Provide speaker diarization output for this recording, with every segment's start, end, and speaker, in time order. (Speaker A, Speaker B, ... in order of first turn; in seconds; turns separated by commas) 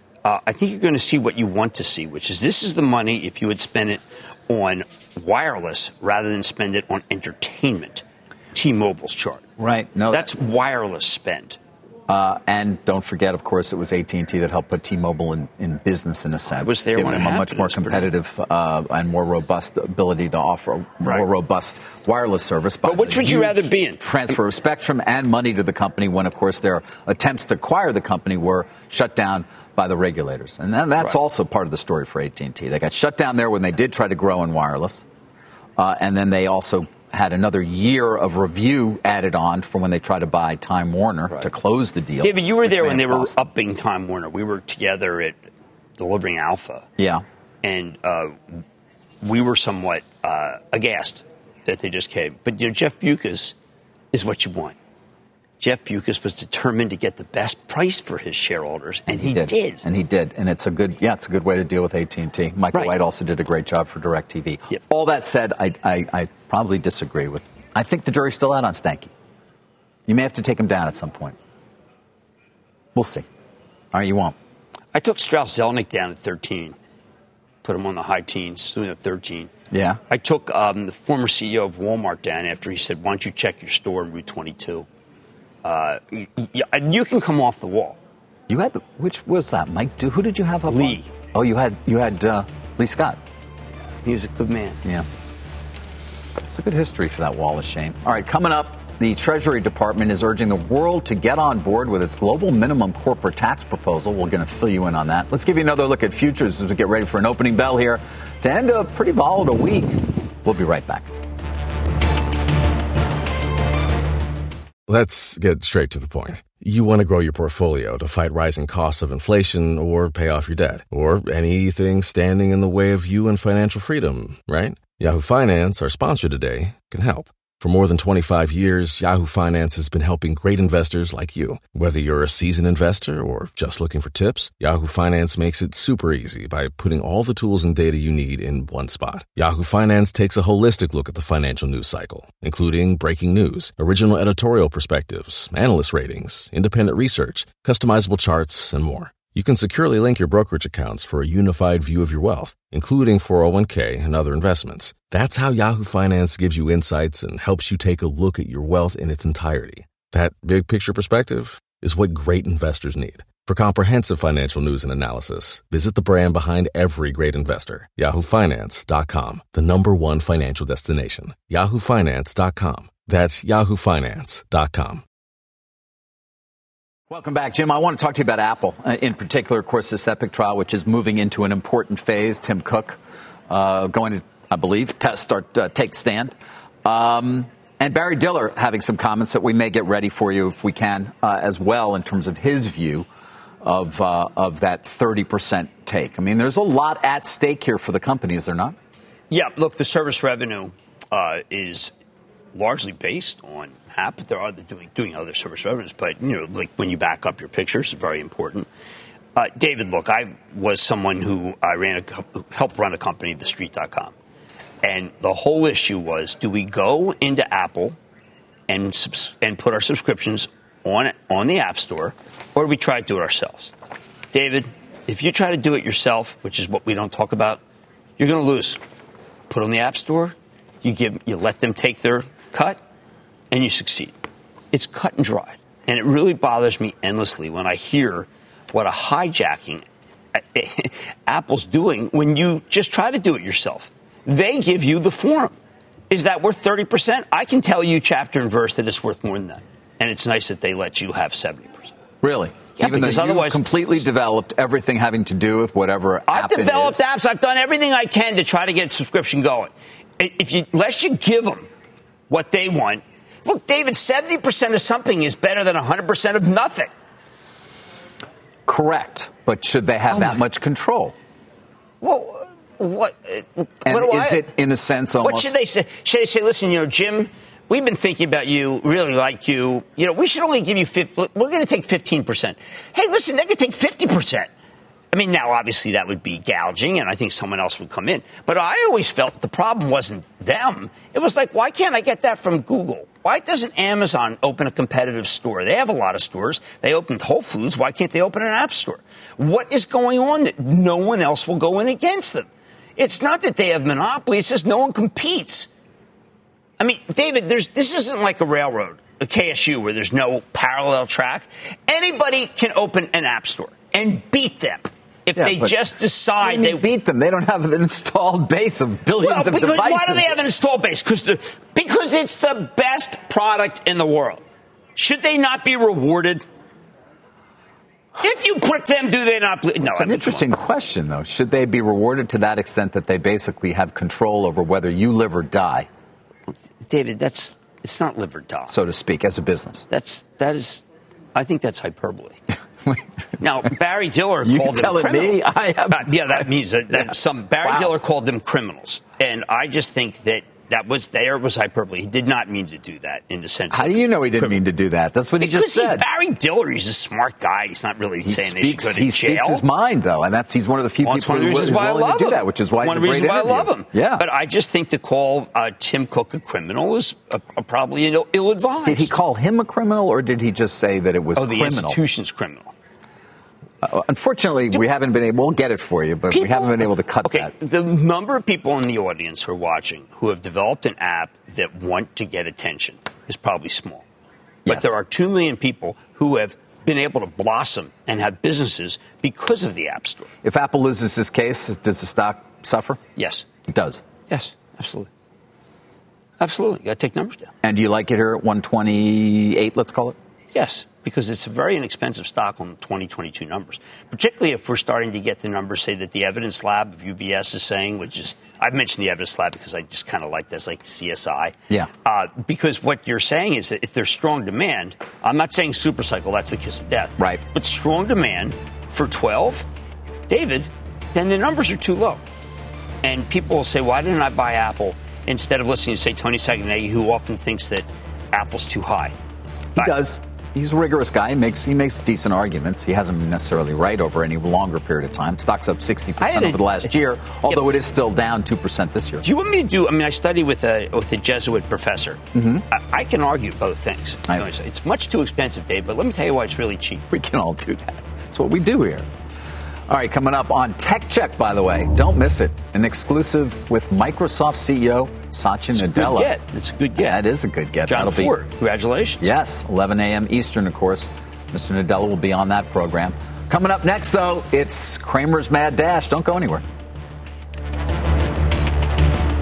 Speaker A: 0.2-9.4, Speaker B: 9.6-10.3, Speaker A: 10.1-11.6, Speaker B: 12.1-35.0, Speaker A: 16.5-18.1, Speaker A: 21.0-21.3, Speaker A: 22.8-24.3, Speaker B: 35.8-43.4, Speaker A: 42.2-45.4, Speaker A: 46.0-46.9, Speaker B: 47.0-47.2, Speaker A: 47.6-48.6, Speaker A: 49.2-53.5, Speaker A: 54.1-54.8, Speaker A: 55.6-59.8, Speaker B: 59.1-69.1, Speaker B: 70.1-71.4, Speaker B: 72.9-73.2, Speaker B: 73.9-74.3, Speaker A: 74.9-76.8, Speaker A: 77.6-79.5, Speaker B: 79.7-80.0, Speaker A: 80.1-84.9, Speaker A: 85.6-88.0, Speaker B: 88.5-93.2, Speaker A: 90.7-91.1, Speaker A: 93.9-94.8, Speaker B: 96.5-111.1, Speaker C: 114.9-175.0, Speaker B: 177.1-193.1, Speaker B: 193.6-198.8, Speaker A: 199.3-201.9, Speaker A: 202.5-208.7, Speaker A: 209.3-214.1, Speaker A: 214.8-218.0, Speaker A: 218.7-223.7, Speaker A: 224.3-227.6, Speaker A: 228.2-228.8, Speaker A: 229.5-232.8, Speaker A: 233.5-234.2, Speaker A: 234.7-245.5, Speaker A: 246.1-251.9, Speaker B: 252.2-257.0, Speaker A: 252.8-253.7, Speaker A: 256.3-261.7, Speaker A: 262.3-266.9, Speaker B: 268.6-271.1, Speaker A: 270.1-270.4, Speaker A: 272.0-274.5, Speaker B: 273.8-275.5, Speaker A: 275.2-284.5, Speaker A: 285.1-305.7, Speaker A: 306.8-316.8, Speaker B: 315.4-315.8, Speaker B: 316.4-320.3, Speaker A: 319.2-324.4, Speaker A: 325.0-326.4, Speaker A: 328.2-330.5, Speaker B: 329.8-335.9, Speaker A: 336.5-338.7, Speaker B: 338.7-339.9, Speaker A: 339.9-340.8, Speaker A: 341.3-342.4, Speaker A: 343.4-354.6, Speaker B: 344.4-347.9, Speaker B: 353.7-356.0, Speaker A: 355.4-359.6, Speaker B: 358.2-364.2, Speaker A: 361.0-369.1, Speaker B: 368.8-372.0, Speaker A: 371.4-372.7, Speaker B: 373.8-377.5, Speaker A: 376.3-384.0, Speaker B: 384.6-385.0, Speaker A: 384.6-390.3, Speaker B: 390.4-393.0, Speaker A: 393.1-393.4, Speaker B: 393.7-394.0, Speaker A: 394.3-395.1, Speaker A: 396.4-397.5, Speaker B: 397.6-400.2, Speaker A: 400.5-419.6, Speaker A: 420.3-422.2, Speaker A: 423.0-429.1, Speaker B: 429.8-439.2, Speaker A: 436.2-436.9, Speaker A: 437.5-437.8, Speaker A: 439.2-447.1, Speaker B: 442.3-442.6, Speaker B: 447.1-449.1, Speaker B: 449.9-456.4, Speaker A: 455.7-457.2, Speaker B: 457.0-458.3, Speaker A: 457.9-459.3, Speaker B: 459.2-466.6